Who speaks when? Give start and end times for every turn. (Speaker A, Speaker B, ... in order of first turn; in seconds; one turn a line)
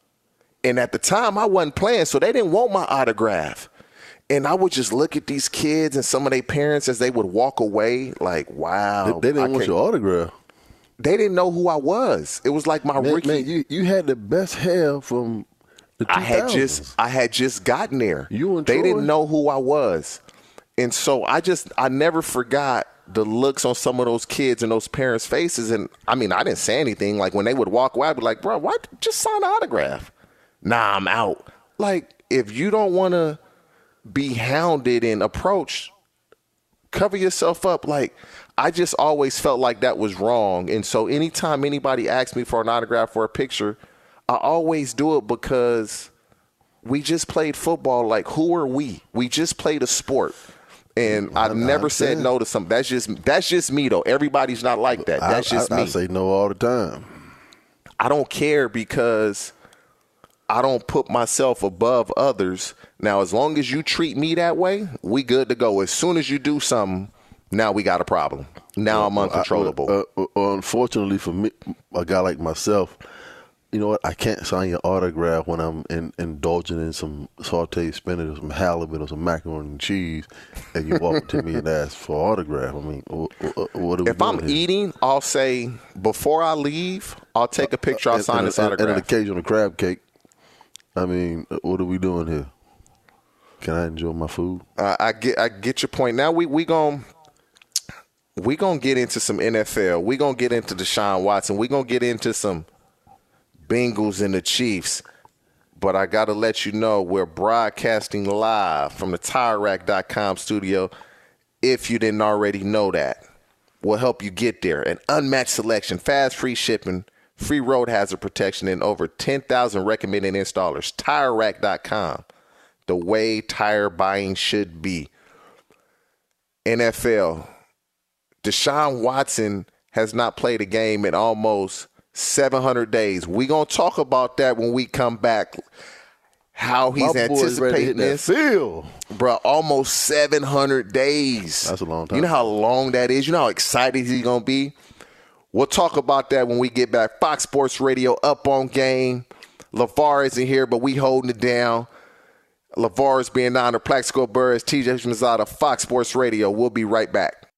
Speaker A: 0.6-3.7
Speaker A: 4.3-9.7
Speaker B: 9.1-10.3
Speaker A: 11.0-13.5
Speaker B: 13.0-15.5
Speaker B: 16.0-16.9
Speaker A: 16.1-20.2
Speaker B: 18.3-19.1
Speaker A: 20.8-30.1
Speaker A: 30.6-33.4
Speaker A: 34.1-35.9
Speaker A: 36.9-46.1
Speaker A: 46.8-50.4
Speaker A: 51.0-56.0
Speaker B: 51.0-52.3
Speaker B: 54.9-57.3
Speaker A: 58.0-59.5
Speaker A: 60.5-69.9
Speaker B: 68.9-73.0
Speaker B: 73.7-84.6
Speaker A: 84.0-89.0
Speaker B: 87.6-90.0
Speaker B: 91.0-92.5
Speaker B: 93.6-94.7
Speaker A: 94.8-97.1
Speaker A: 98.4-102.7
Speaker A: 103.7-105.0
Speaker A: 105.8-110.9
Speaker A: 111.6-113.2
Speaker A: 113.8-122.3
Speaker A: 122.9-125.1
Speaker A: 126.7-127.5
Speaker A: 128.4-135.6
Speaker A: 136.5-138.3
Speaker B: 136.9-139.0
Speaker A: 139.1-144.8
Speaker B: 141.6-142.5
Speaker A: 145.5-151.9
Speaker A: 152.8-157.4